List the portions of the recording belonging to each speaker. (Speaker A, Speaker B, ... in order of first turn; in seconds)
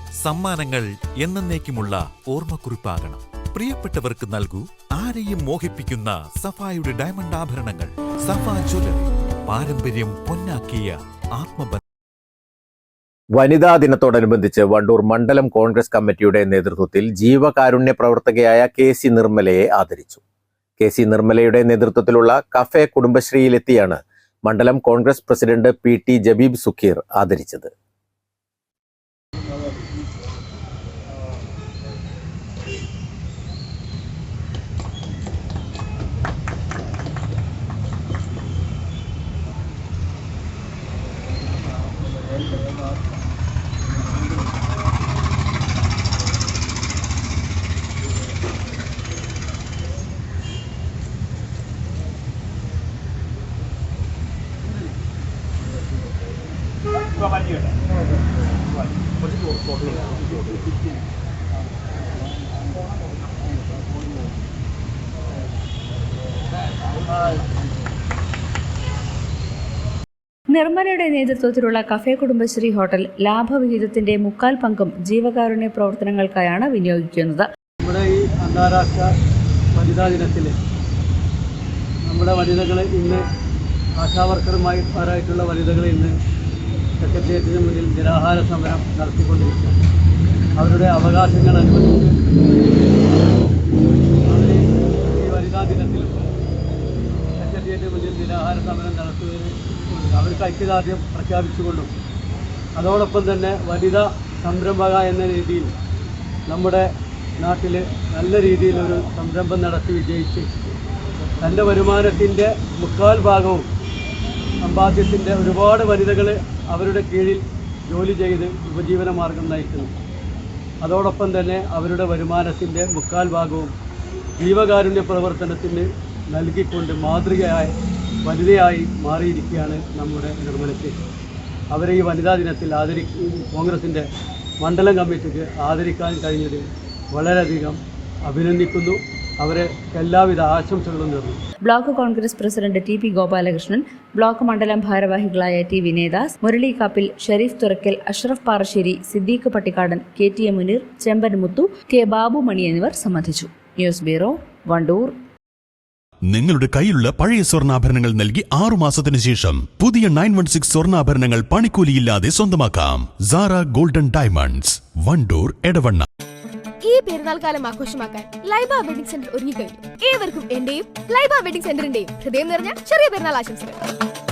Speaker A: 0.2-11.8
Speaker B: 13.3-20.2, 20.8-27.7
Speaker C: 70.5-77.5, 141.7-155.1
Speaker D: 77.8-79.1, 79.8-80.5, 82.1-83.2, 84.0-86.1, 87.0-89.8, 90.6-92.9, 94.2-96.3, 97.4-101.9, 102.8-105.7, 106.5-106.8, 107.4-110.5, 111.4-113.7, 114.6-119.9, 120.8-123.7, 124.4-127.7, 128.2-130.9, 131.7-134.0, 134.6-141.4
Speaker E: 156.3-166.0
Speaker F: 166.8-173.8